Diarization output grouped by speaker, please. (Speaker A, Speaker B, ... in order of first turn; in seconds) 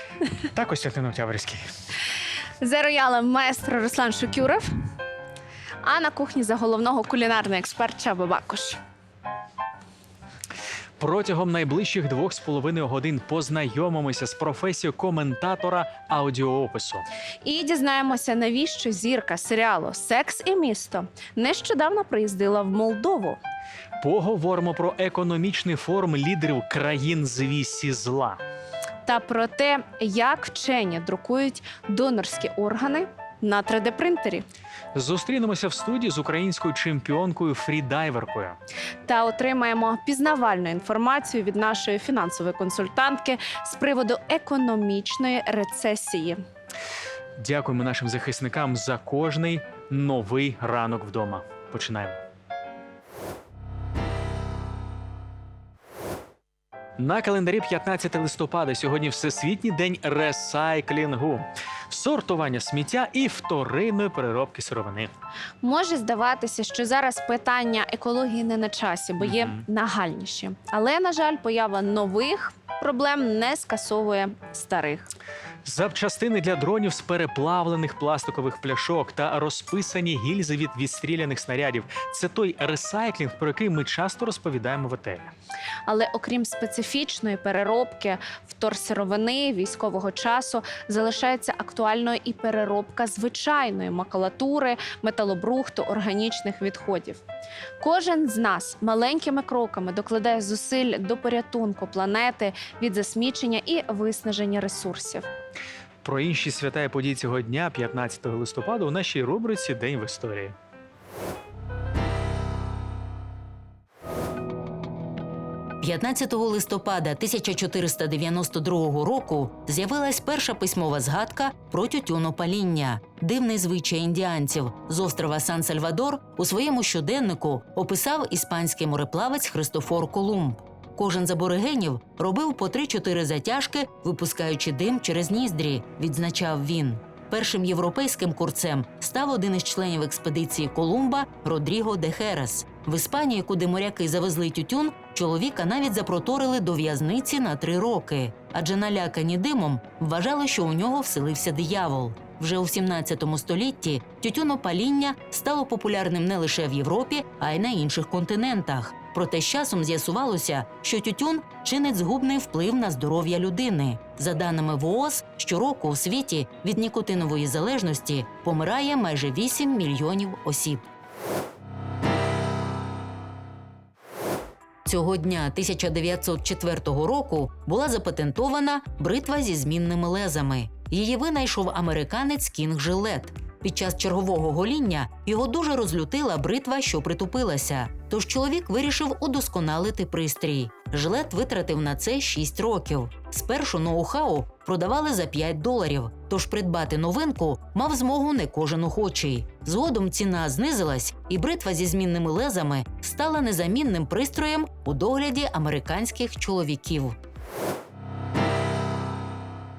Speaker A: 0.5-1.6, 11.0-17.0, 24.0-28.4, 34.9-38.6, 47.4-52.2, 57.0-65.1, 69.2-69.6, 75.6-85.3, 106.0-110.5
Speaker B: 2.6-4.7, 5.8-8.8, 17.4-23.4, 29.1-34.5, 39.0-46.4, 65.6-75.1, 85.9-97.2, 97.8-105.2
Speaker C: 115.8-170.8, 174.8-207.2